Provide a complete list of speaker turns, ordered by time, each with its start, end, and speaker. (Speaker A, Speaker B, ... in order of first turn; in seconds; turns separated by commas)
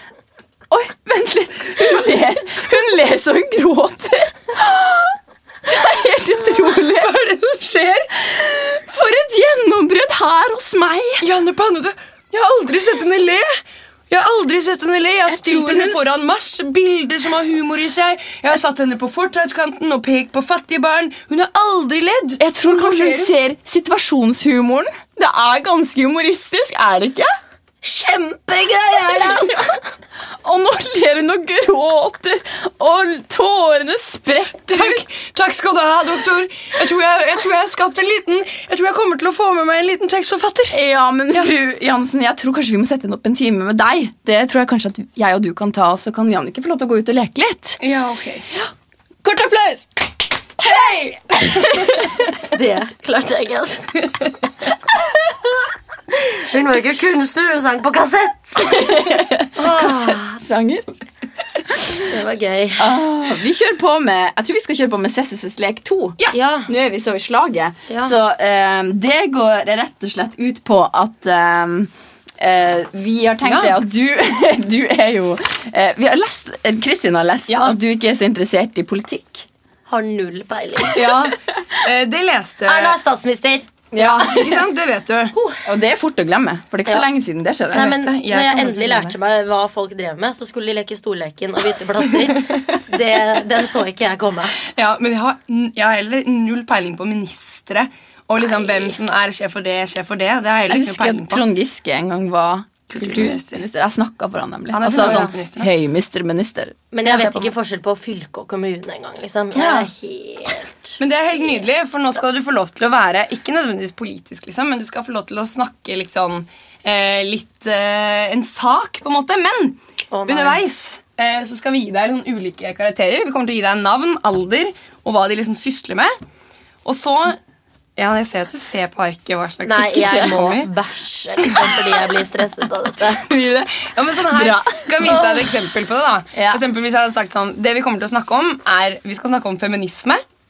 Speaker A: 0.7-7.2, Speaker B: 6.8-8.1, Speaker A: 8.2-11.3, Speaker B: 11.2-23.3, Speaker A: 15.3-16.1, Speaker A: 22.4-27.4, Speaker C: 27.8-29.8, Speaker A: 30.4-35.0, Speaker B: 34.7-40.8, Speaker A: 40.7-47.8, Speaker B: 47.8-48.5, Speaker A: 49.2-49.9, Speaker A: 50.6-52.2, Speaker C: 52.4-54.1, Speaker C: 56.1-58.8, Speaker A: 58.6-60.9, Speaker C: 59.6-60.4, Speaker A: 61.7-62.1, Speaker C: 62.1-63.0, Speaker A: 62.8-79.5, Speaker C: 66.3-66.7, Speaker C: 67.9-68.1, Speaker B: 73.4-73.8, Speaker B: 77.5-77.8, Speaker C: 79.9-81.3, Speaker B: 80.9-83.0, Speaker C: 82.7-83.7, Speaker A: 83.9-84.6, Speaker B: 84.0-85.3, Speaker C: 85.3-85.6, Speaker A: 85.6-87.9, Speaker C: 87.7-94.6, Speaker B: 87.7-89.2, Speaker B: 94.7-101.4, Speaker C: 98.4-99.0, Speaker A: 100.7-107.5, Speaker B: 102.9-103.6, Speaker B: 104.7-105.7, Speaker C: 106.9-111.0, Speaker B: 109.5-109.9, Speaker B: 111.0-126.1, Speaker C: 120.1-120.6, Speaker B: 126.8-127.4, Speaker B: 128.0-130.7, Speaker C: 129.6-133.3, Speaker B: 131.5-131.8, Speaker B: 133.2-140.2, Speaker A: 134.3-135.2, Speaker A: 136.3-136.6